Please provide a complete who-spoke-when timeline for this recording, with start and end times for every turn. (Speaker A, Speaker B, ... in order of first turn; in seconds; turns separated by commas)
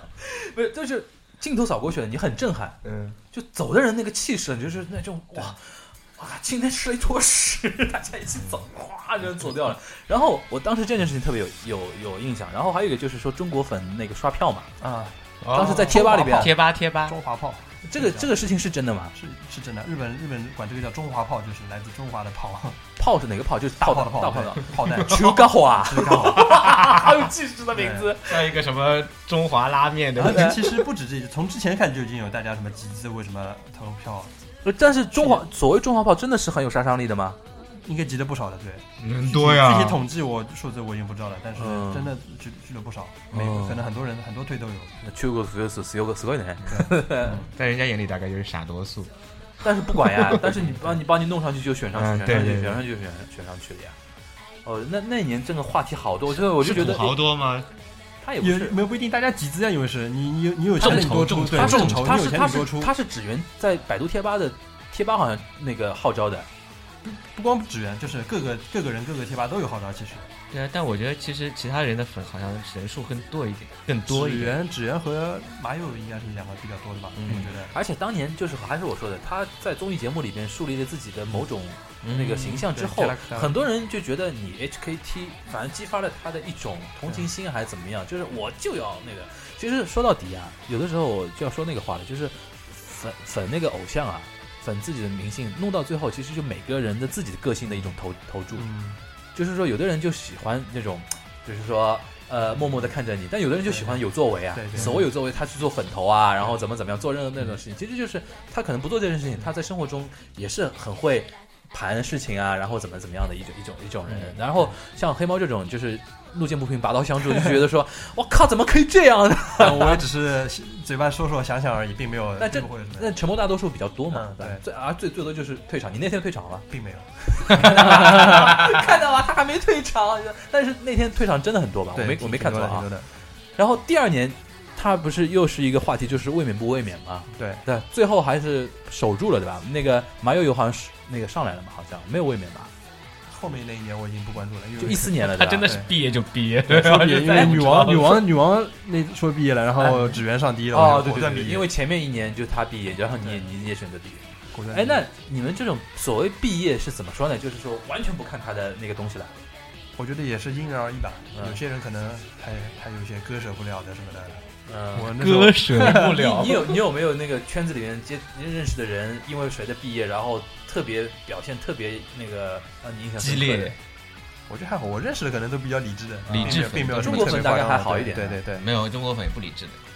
Speaker A: 0.2-2.8, Speaker B: 2.8-3.2, Speaker A: 3.3-14.7, Speaker C: 14.8-18.3, Speaker B: 15.4-17.2, Speaker A: 15.5-16.5, Speaker A: 17.9-19.1, Speaker C: 19.1-22.8, Speaker A: 23.0-28.5, Speaker C: 23.8-26.6, Speaker B: 26.5-26.8, Speaker C: 27.7-28.1, Speaker B: 28.2-30.8, Speaker C: 30.2-34.3, Speaker A: 30.2-30.6, Speaker A: 34.6-37.4, Speaker C: 35.1-35.5, Speaker C: 37.6-45.0, Speaker B: 39.0-40.0, Speaker A: 41.6-42.2, Speaker A: 43.3-43.8, Speaker A: 45.0-47.4, Speaker C: 46.7-47.5, Speaker B: 47.5-49.1, Speaker A: 49.6-54.0, Speaker B: 49.9-50.7, Speaker B: 52.0-52.8, Speaker A: 54.6-57.1, Speaker B: 56.3-57.7, Speaker A: 58.2-58.8, Speaker C: 58.4-63.0, Speaker B: 60.8-62.3, Speaker A: 60.9-66.5, Speaker C: 67.0-70.3, Speaker B: 70.5-74.6, Speaker C: 74.1-77.7, Speaker B: 77.2-77.5, Speaker A: 77.3-98.7, Speaker B: 82.0-82.7, Speaker C: 82.7-83.7, Speaker C: 98.5-99.0, Speaker A: 99.3-120.0, Speaker C: 103.7-105.1, Speaker C: 114.1-114.8, Speaker C: 119.6-123.2, Speaker A: 122.4-126.7, Speaker C: 124.1-124.6, Speaker C: 126.7-128.7, Speaker A: 127.3-132.9, Speaker C: 131.9-133.1, Speaker A: 133.6-142.7, Speaker C: 137.3-137.6, Speaker C: 143.3-145.9, Speaker A: 144.8-145.8, Speaker B: 145.2-148.3, Speaker C: 146.7-151.7, Speaker A: 149.8-159.3, Speaker C: 154.5-155.1, Speaker C: 160.0-166.1, Speaker A: 161.3-161.6, Speaker A: 164.7-165.2, Speaker B: 165.1-166.8, Speaker A: 165.7-173.8, Speaker B: 173.2-173.8, Speaker C: 174.5-178.7, Speaker A: 176.3-178.4, Speaker B: 176.3-177.4, Speaker B: 178.6-179.8